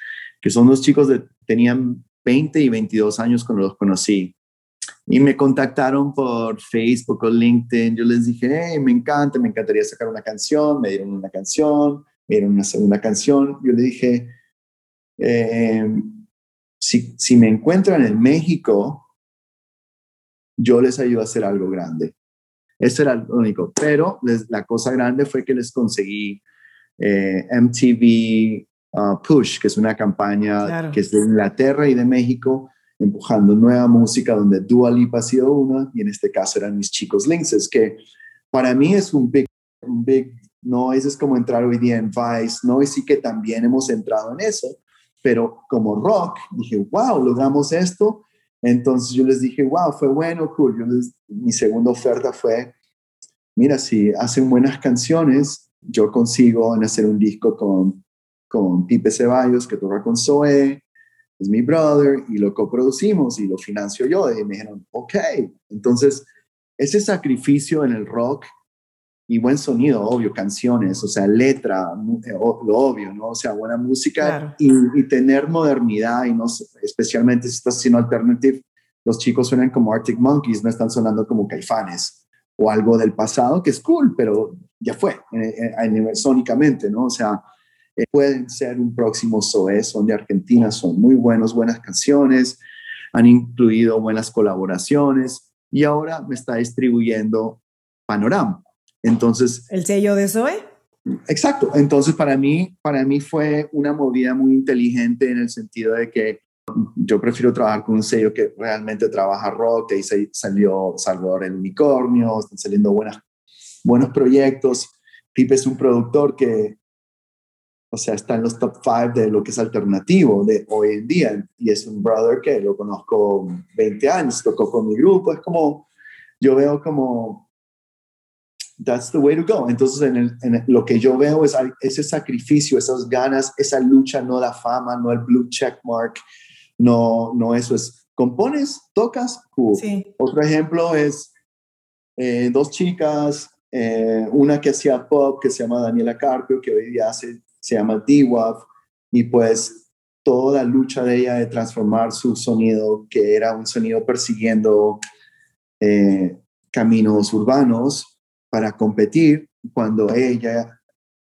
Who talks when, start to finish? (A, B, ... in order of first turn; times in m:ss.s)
0:00.4-0:04.4 A
0:05.1-0:14.3 A
0:15.2-0:16.2 A
0:16.8-0:19.1 A
0:20.6-0:22.1 A
0:22.8-0:26.4 A
0:27.0-0:38.0 A
0:30.6-0:31.0 B
0:38.5-0:52.7 A
0:53.6-1:00.8 A
1:01.4-1:06.3 A
1:06.8-1:08.5 A
1:09.3-1:27.4 A
1:14.2-1:14.6 B
1:28.0-1:32.6 A
1:33.1-1:39.6 A
1:39.7-1:40.6 B
1:41.3-1:53.2 A
1:53.8-1:56.8 A
1:57.9-2:05.9 A
2:06.4-2:07.5 A
2:08.8-2:16.2 A
2:16.8-2:21.3 A
2:19.7-2:20.1 B
2:22.2-2:35.0 A
2:35.8-2:40.7 A